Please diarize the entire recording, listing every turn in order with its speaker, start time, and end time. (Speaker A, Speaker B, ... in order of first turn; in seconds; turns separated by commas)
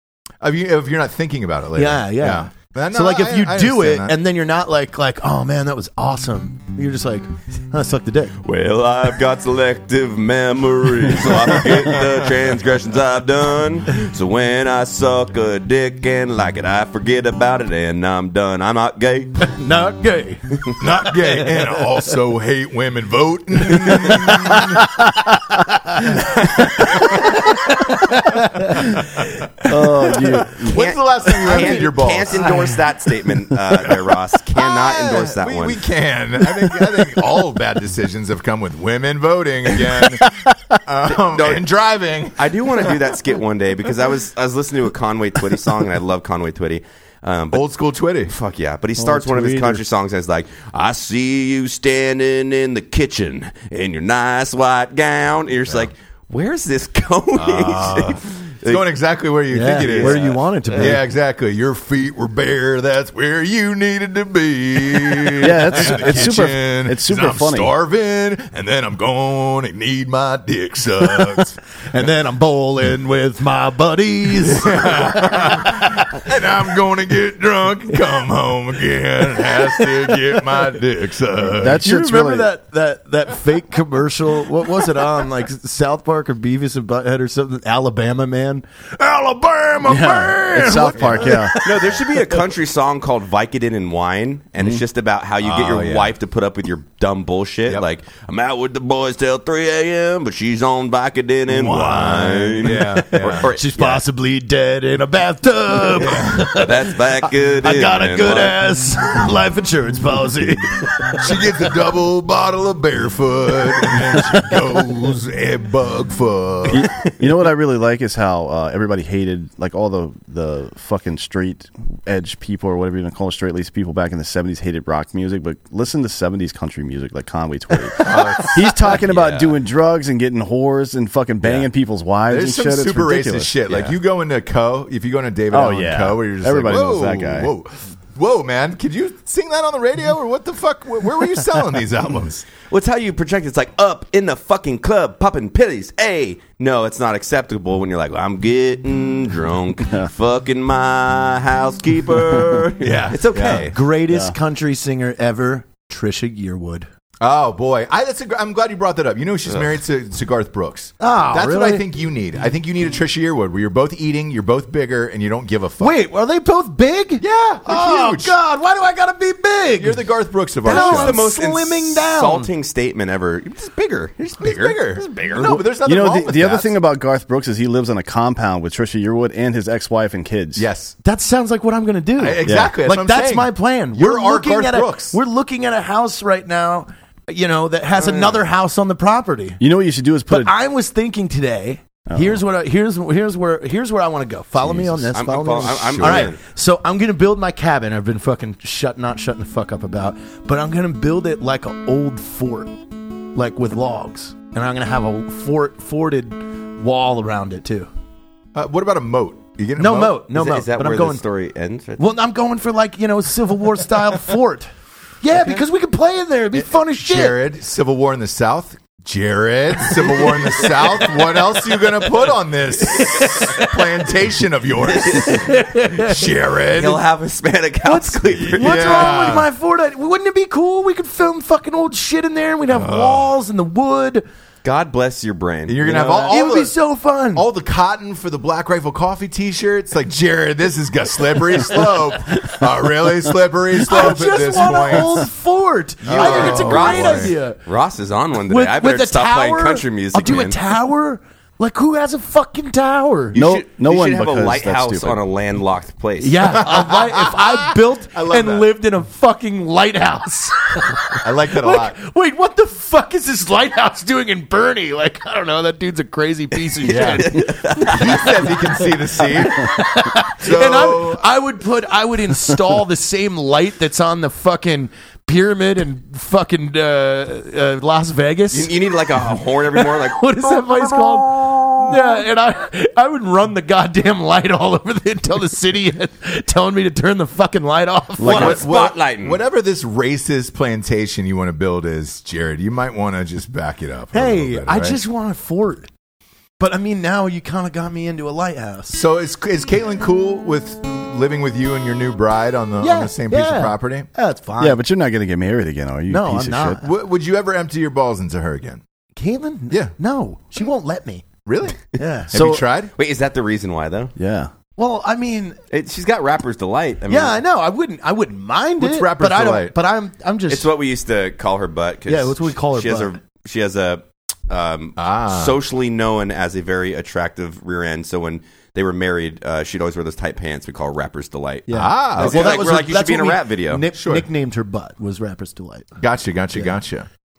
Speaker A: 0.4-4.2, Speaker B: 1.8-8.3, Speaker C: 8.4-19.5, Speaker A: 11.7-12.1, Speaker B: 19.6-20.4, Speaker A: 20.8-25.0, Speaker B: 23.9-30.1, Speaker A: 26.1-29.3, Speaker D: 29.6-30.8, Speaker A: 30.4-32.7, Speaker C: 30.6-35.8, Speaker B: 31.4-32.8, Speaker A: 33.7-43.1, Speaker C: 41.2-41.6, Speaker C: 42.4-47.6, Speaker A: 47.5-48.3, Speaker C: 48.3-58.8, Speaker B: 49.0-49.8, Speaker A: 57.4-71.6, Speaker B: 59.5-61.0, Speaker C: 59.8-61.0, Speaker D: 65.4-67.7, Speaker B: 71.9-76.0, Speaker A: 74.5-81.8, Speaker D: 81.5-82.5, Speaker B: 81.8-92.4, Speaker D: 89.9-91.6, Speaker A: 90.9-91.4, Speaker C: 91.5-104.0, Speaker A: 95.4-96.2, Speaker A: 101.5-103.5, Speaker B: 102.6-111.2, Speaker A: 106.0-106.5, Speaker C: 106.5-108.6, Speaker A: 111.2-116.9, Speaker B: 113.8-114.2, Speaker D: 116.7-133.7, Speaker A: 128.0-128.9, Speaker C: 128.8-129.6, Speaker C: 131.4-131.7, Speaker A: 132.3-142.4, Speaker C: 133.7-133.9, Speaker D: 135.5-137.5, Speaker C: 142.7-153.7, Speaker A: 152.8-153.7, Speaker B: 153.4-156.9, Speaker D: 154.1-154.3, Speaker A: 157.2-166.0, Speaker B: 161.0-161.8, Speaker B: 165.8-170.0, Speaker A: 167.2-168.3, Speaker A: 169.8-171.2, Speaker B: 170.6-172.5, Speaker C: 170.6-175.6, Speaker A: 174.4-176.8, Speaker D: 175.8-180.7, Speaker A: 180.6-180.9, Speaker B: 181.0-189.6, Speaker A: 182.2-185.2, Speaker D: 182.4-182.8, Speaker C: 188.0-188.4, Speaker D: 189.6-190.5, Speaker B: 190.3-202.8, Speaker D: 192.1-192.4, Speaker C: 195.1-196.4, Speaker A: 195.8-196.3, Speaker B: 203.3-207.9, Speaker A: 208.5-210.2, Speaker B: 209.8-211.2, Speaker C: 210.3-212.1, Speaker B: 212.0-217.4, Speaker A: 216.5-227.0, Speaker B: 222.9-223.7, Speaker C: 224.8-225.4, Speaker B: 225.2-226.3, Speaker C: 226.7-229.2, Speaker B: 227.8-234.2, Speaker A: 228.3-229.5, Speaker A: 232.7-233.3, Speaker C: 234.6-236.3, Speaker A: 235.7-236.8, Speaker B: 235.9-237.5, Speaker A: 237.3-245.3, Speaker B: 243.8-247.6, Speaker A: 246.0-247.3, Speaker C: 246.1-250.6, Speaker B: 248.5-253.4, Speaker C: 253.3-256.6, Speaker D: 253.3-255.2, Speaker B: 256.2-268.5, Speaker A: 256.5-258.7, Speaker A: 261.2-262.0, Speaker A: 266.8-269.8, Speaker C: 266.9-268.5, Speaker B: 269.3-278.7, Speaker A: 270.4-271.2, Speaker C: 278.5-282.1, Speaker B: 279.7-288.6, Speaker D: 288.2-288.6, Speaker C: 288.2-289.4, Speaker A: 288.3-295.0, Speaker B: 294.1-295.9, Speaker B: 296.6-299.0, Speaker A: 298.9-304.1, Speaker B: 302.8-304.8, Speaker D: 304.6-306.8, Speaker B: 306.1-306.8, Speaker A: 306.8-308.8, Speaker B: 309.2-311.3, Speaker A: 311.5-312.9, Speaker B: 311.9-312.3, Speaker D: 312.3-312.6, Speaker C: 312.9-314.1, Speaker D: 314.2-314.5, Speaker B: 314.8-315.6, Speaker C: 315.7-317.4, Speaker B: 317.1-320.7, Speaker A: 318.8-319.7, Speaker C: 320.5-333.9, Speaker B: 322.1-323.1, Speaker A: 325.0-325.6, Speaker B: 331.7-336.0, Speaker A: 331.7-332.7, Speaker A: 333.9-334.3, Speaker A: 336.0-337.1